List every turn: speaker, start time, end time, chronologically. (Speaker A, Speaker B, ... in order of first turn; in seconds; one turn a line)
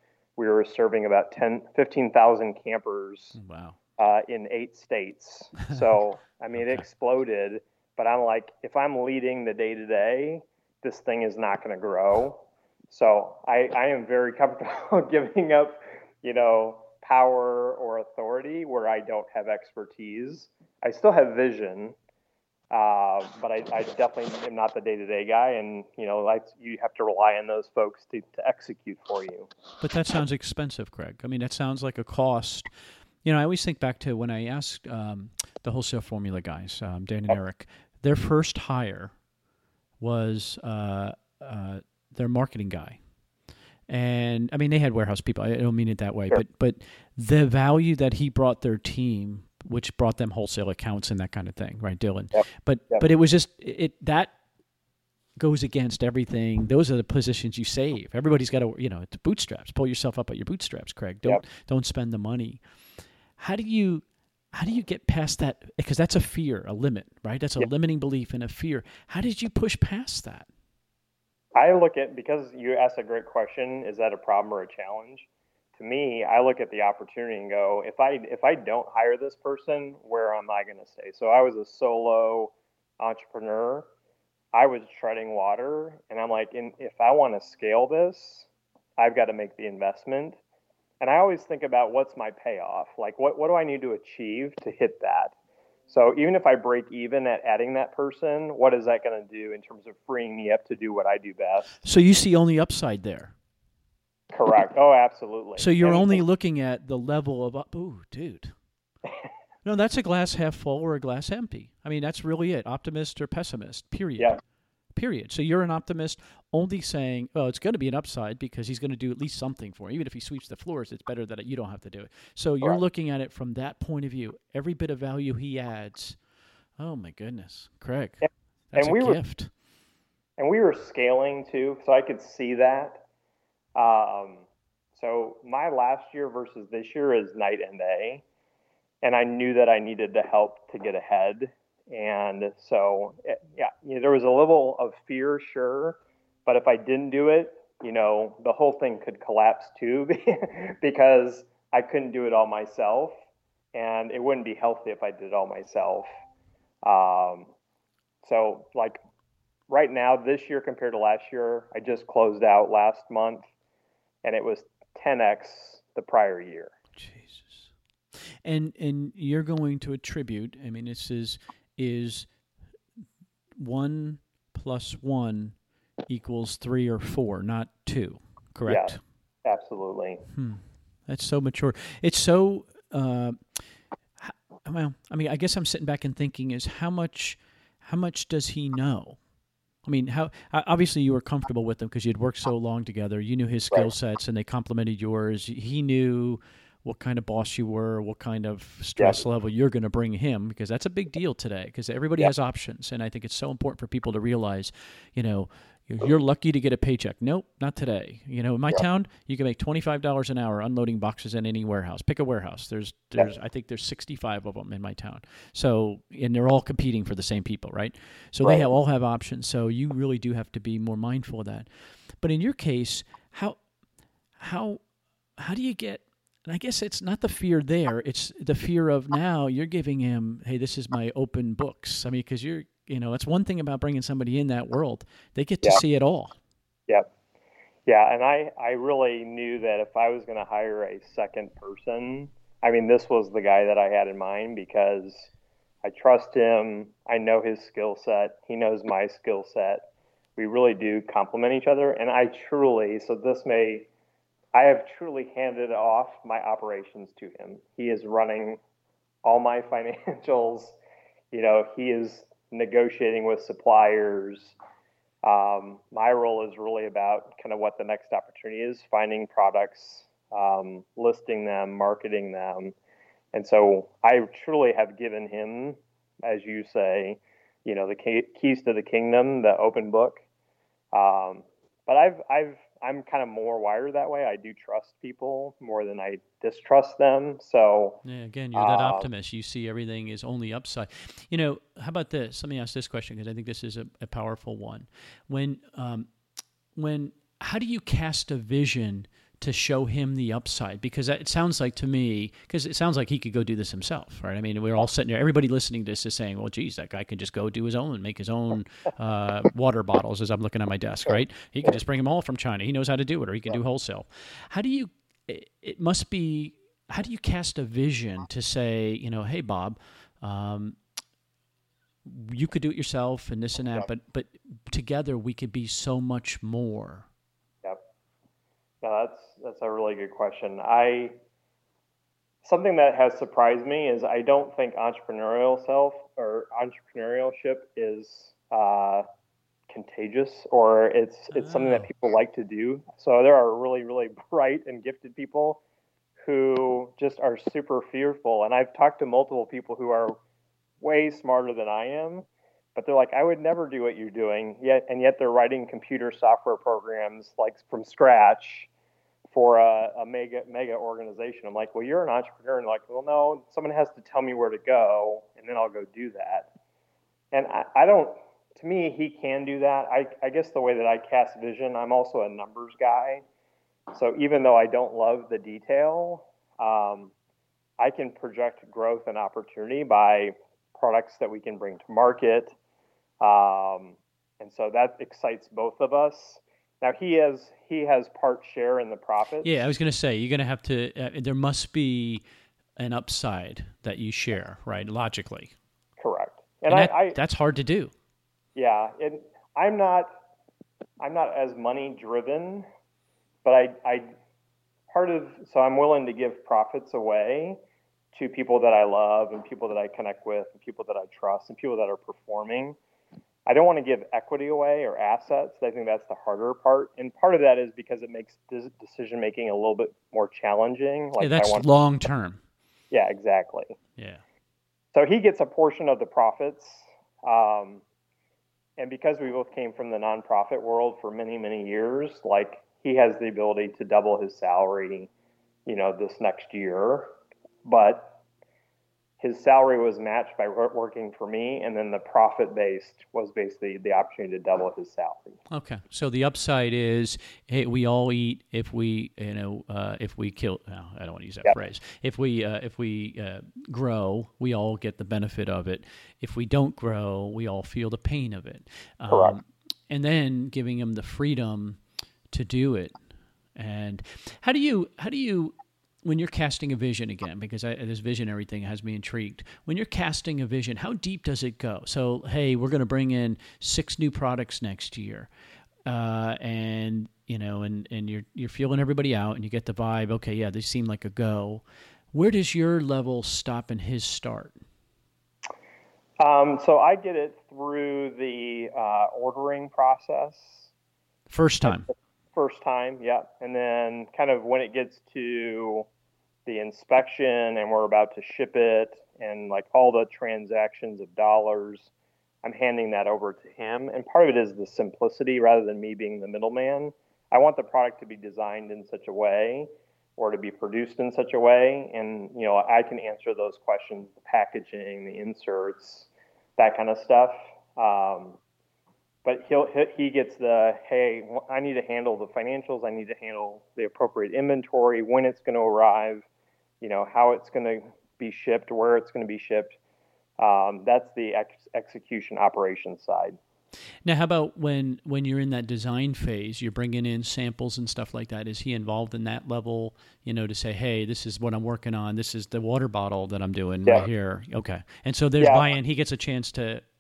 Speaker A: 0.4-3.4
Speaker B: 3.4-3.8
Speaker A: 4.0-21.9
Speaker B: 6.6-6.8
Speaker A: 22.7-29.5
Speaker B: 29.8-32.7
Speaker B: 33.2-39.1
Speaker B: 40.0-43.0
Speaker B: 43.9-54.3
Speaker A: 52.3-53.1
Speaker B: 55.4-62.6
Speaker B: 63.4-70.5
Speaker A: 71.5-83.9
Speaker A: 84.5-90.4
Speaker A: 91.0-95.3
Speaker A: 95.9-101.8
Speaker B: 101.8-103.3
Speaker A: 104.3-106.2
Speaker B: 105.6-108.5
Speaker B: 109.6-114.4
Speaker B: 114.9-126.2
Speaker B: 126.8-129.5
Speaker A: 128.2-129.2
Speaker A: 130.4-133.0
Speaker A: 133.8-138.2
Speaker A: 139.0-153.1
Speaker A: 153.7-156.1
Speaker A: 156.9-157.5
Speaker A: 158.2-159.0
Speaker A: 159.7-163.5
Speaker A: 164.2-166.8
Speaker B: 167.0-167.7
Speaker B: 168.4-172.3
Speaker B: 173.6-175.6
Speaker B: 176.1-179.0
Speaker A: 178.7-180.2
Speaker B: 180.3-183.6
Speaker B: 184.2-189.2
Speaker B: 189.8-221.7
Speaker A: 218.4-218.7
Speaker B: 222.2-223.6
Speaker B: 224.4-224.8
Speaker B: 225.4-236.4
Speaker A: 237.9-245.3
Speaker A: 245.8-249.8
Speaker A: 250.4-253.9
Speaker A: 254.5-258.6
Speaker A: 259.2-260.8
Speaker A: 261.3-264.6
Speaker A: 265.2-272.8
Speaker A: 273.3-280.2
Speaker A: 280.9-288.0
Speaker B: 288.0-296.1
Speaker A: 288.5-289.1
Speaker B: 296.8-320.8
Speaker B: 322.1-327.1
Speaker A: 328.8-331.1
Speaker A: 332.4-339.1
Speaker A: 339.7-345.6
Speaker B: 341.3-341.9
Speaker A: 346.2-350.2
Speaker A: 350.8-358.7
Speaker A: 359.3-366.5
Speaker A: 367.3-373.2
Speaker A: 373.9-377.1
Speaker A: 377.8-382.6
Speaker A: 383.2-389.7
Speaker B: 389.4-392.2
Speaker B: 392.8-395.5
Speaker A: 396.0-397.2
Speaker B: 396.7-397.9
Speaker A: 398.6-400.1
Speaker A: 401.0-402.7
Speaker A: 403.4-404.1
Speaker A: 404.9-407.6
Speaker A: 408.1-412.8
Speaker A: 413.5-421.8
Speaker B: 421.2-422.4
Speaker A: 422.9-423.8
Speaker B: 424.0-424.2
Speaker A: 424.9-427.8
Speaker A: 428.8-435.1
Speaker A: 435.7-437.1
Speaker A: 437.6-438.2
Speaker A: 439.2-445.4
Speaker B: 445.5-461.8
Speaker A: 459.1-459.4
Speaker B: 462.3-462.9
Speaker B: 463.6-475.3
Speaker B: 475.9-484.6
Speaker A: 486.2-490.7
Speaker B: 491.3-491.9
Speaker A: 491.7-495.9
Speaker A: 496.5-501.9
Speaker A: 502.4-518.4
Speaker A: 519.2-526.2
Speaker A: 526.8-529.8
Speaker A: 530.4-533.4
Speaker B: 534.0-546.8
Speaker A: 545.4-545.7